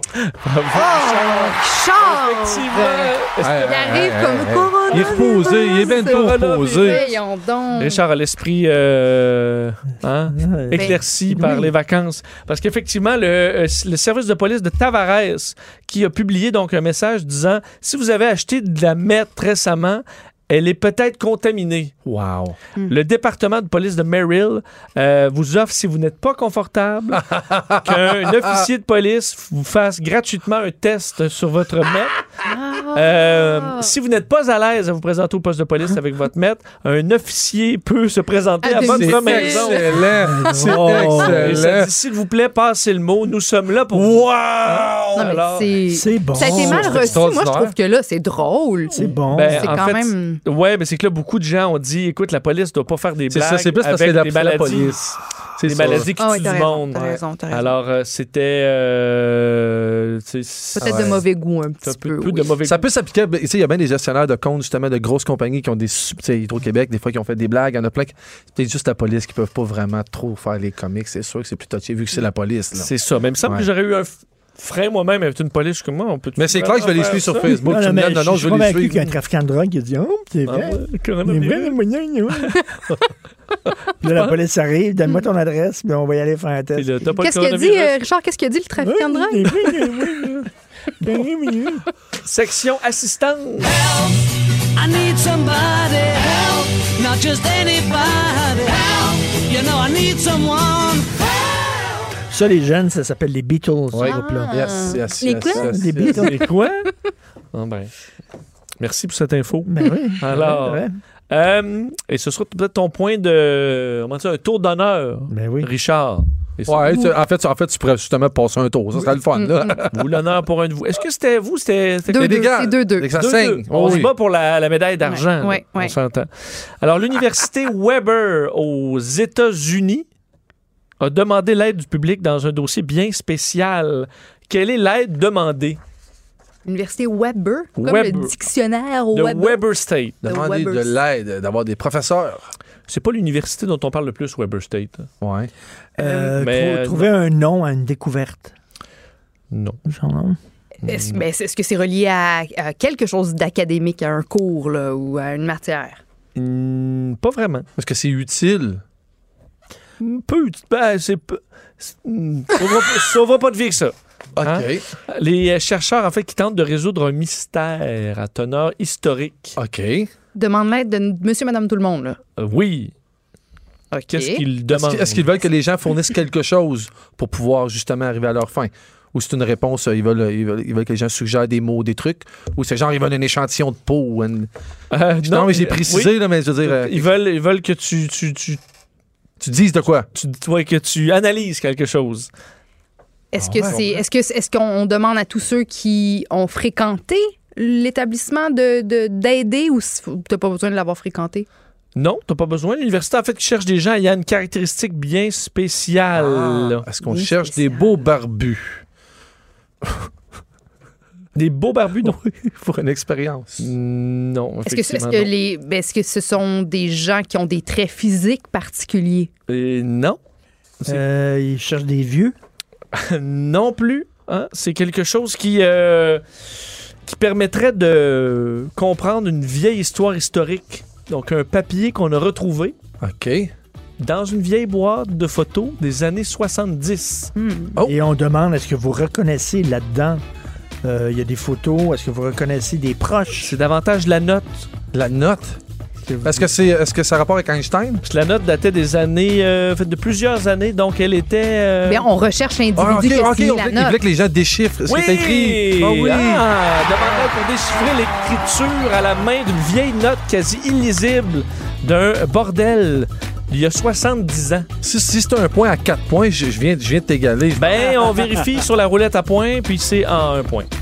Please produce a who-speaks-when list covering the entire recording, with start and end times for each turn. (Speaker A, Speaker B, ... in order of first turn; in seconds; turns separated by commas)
Speaker A: 0.1-3.5, Speaker B: 0.7-8.0, Speaker C: 3.4-7.0, Speaker A: 4.9-5.2, Speaker A: 6.0-7.2, Speaker A: 7.8-21.9, Speaker D: 10.3-11.7, Speaker B: 10.7-11.0, Speaker C: 22.0-22.6, Speaker A: 22.9-27.3, Speaker C: 27.1-28.6, Speaker A: 27.8-32.2, Speaker B: 32.4-33.9, Speaker A: 32.9-40.0, Speaker B: 38.6-40.1, Speaker C: 38.8-41.9, Speaker D: 40.1-41.6, Speaker A: 41.0-45.8, Speaker C: 43.9-45.4, Speaker B: 45.1-49.0, Speaker D: 45.9-47.1, Speaker C: 46.4-47.7, Speaker D: 48.9-49.8, Speaker A: 49.3-55.1, Speaker B: 49.6-50.4, Speaker C: 53.3-56.1, Speaker A: 55.6-61.2, Speaker B: 56.2-57.7, Speaker B: 60.8-62.5, Speaker C: 60.8-61.2, Speaker A: 61.8-62.8, Speaker C: 62.6-72.9, Speaker A: 72.7-77.6, Speaker C: 76.4-79.1, Speaker D: 77.6-82.6, Speaker A: 80.5-81.8, Speaker A: 82.3-82.6, Speaker D: 84.0-86.9, Speaker A: 84.1-84.3, Speaker A: 86.7-88.0, Speaker B: 87.2-90.0, Speaker D: 88.8-90.5, Speaker D: 91.0-91.8, Speaker A: 92.2-93.7, Speaker E: 93.6-94.2, Speaker E: 94.8-101.9, Speaker D: 102.3-104.6, Speaker C: 103.9-106.3, Speaker B: 104.0-106.3, Speaker D: 105.5-106.3, Speaker A: 106.1-106.9, Speaker A: 107.5-107.9, Speaker A: 108.8-117.0, Speaker D: 109.7-111.0, Speaker D: 115.3-115.7, Speaker C: 116.7-120.1, Speaker B: 119.4-119.7, Speaker A: 119.9-122.4, Speaker B: 122.1-123.1, Speaker C: 122.1-124.1, Speaker A: 123.2-130.1, Speaker B: 125.0-125.9, Speaker A: 131.0-135.8, Speaker B: 136.7-139.6, Speaker A: 137.8-138.3, Speaker A: 139.1-140.2, Speaker C: 140.2-142.4, Speaker B: 140.2-140.9, Speaker A: 142.9-145.1, Speaker C: 145.2-145.5, Speaker D: 146.0-148.5, Speaker B: 146.0-146.3, Speaker A: 146.4-147.1, Speaker A: 149.5-149.8, Speaker D: 149.8-150.4, Speaker B: 150.8-156.0, Speaker A: 150.8-151.2, Speaker A: 156.3-157.7, Speaker C: 157.8-158.8, Speaker A: 160.0-169.6, Speaker C: 164.3-164.8, Speaker C: 169.6-170.1, Speaker B: 170.3-172.2, Speaker A: 172.4-172.9, Speaker B: 173.9-174.4, Speaker A: 174.1-175.2, Speaker C: 174.7-184.5, Speaker A: 184.9-188.6, Speaker C: 185.2-187.1, Speaker C: 189.4-190.1, Speaker A: 190.1-192.3, Speaker B: 193.3-201.5, Speaker C: 193.4-194.0, Speaker A: 201.9-206.8, Speaker C: 206.1-208.8, Speaker B: 207.0-207.9, Speaker A: 211.3-212.2, Speaker C: 212.0-213.7, Speaker A: 213.6-215.3, Speaker B: 214.7-219.3, Speaker A: 219.5-220.2, Speaker D: 220.8-222.3, Speaker A: 222.9-226.2, Speaker A: 227.1-232.8, Speaker C: 233.0-233.5, Speaker A: 234.0-237.3, Speaker B: 237.3-237.8, Speaker D: 237.8-240.2, Speaker D: 240.8-243.5, Speaker A: 243.4-244.7, Speaker C: 244.9-245.6, Speaker D: 246.1-246.5, Speaker C: 246.2-248.0, Speaker A: 248.0-252.1, Speaker B: 251.9-254.0, Speaker C: 252.7-256.5, Speaker A: 254.9-264.7, Speaker C: 264.8-267.9, Speaker A: 267.6-270.7